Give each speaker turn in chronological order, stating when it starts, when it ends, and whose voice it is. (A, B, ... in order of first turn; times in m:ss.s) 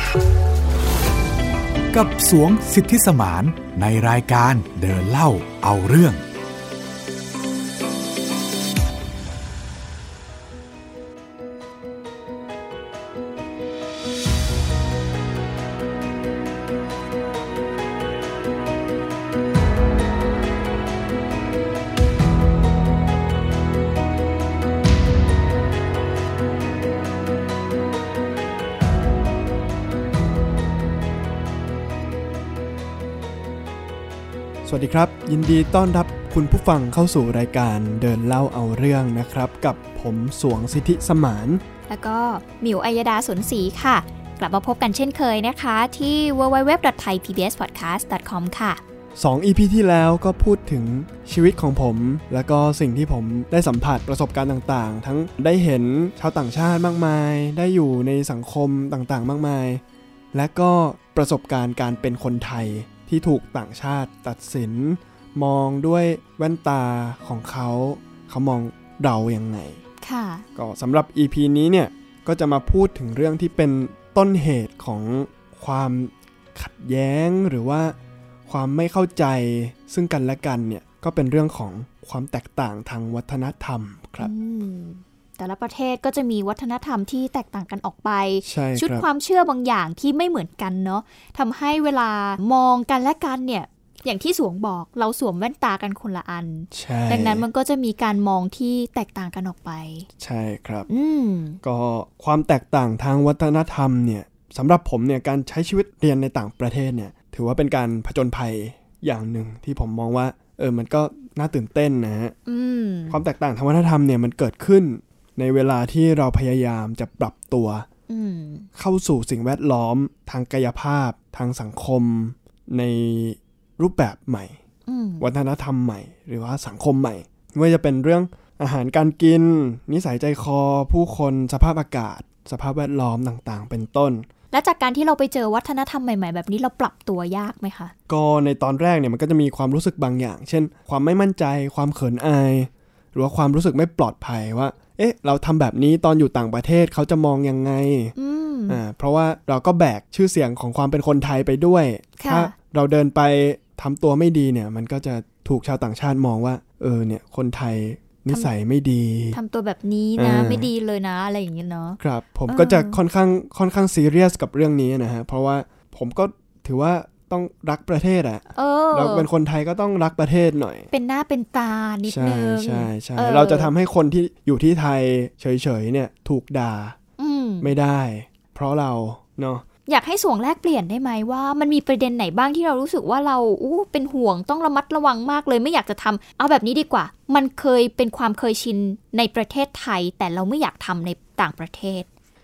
0:01.9-0:06.2 A
0:34.6-0:41.6 B
0:41.9-0:48.8 C
0:49.2-0:59.8 B
1:00.3-1:09.8 B
1:10.0-1:10.4 C
1:10.6-1:18.0 B
1:18.5-1:24.3 B
1:24.2-1:40.1 C
1:28.4-1:29.1 B
1:36.7-1:37.4 B
1:40.2-1:40.9 B
1:40.9-1:41.6 C
1:41.6-1:52.3 B
1:52.5-1:53.2 C
1:53.1-1:57.9 B
1:58.1-1:58.7 C
1:58.8-2:04.6 B
2:04.9-2:05.2 C
2:05.2-2:14.2 B
2:14.5-2:17.9 C
2:18.1-2:28.1 B
2:28.2-2:28.8 C
2:28.7-2:39.4 B
2:32.2-2:32.5 C
2:39.3-2:43.0 C
2:40.2-2:40.7 B
2:42.0-2:50.9 B
2:48.5-2:49.3 C
2:50.9-2:53.7 C
2:52.1-2:57.0 B
2:57.2-2:57.7 C
2:57.6-2:59.6 B
2:59.9-3:12.1 C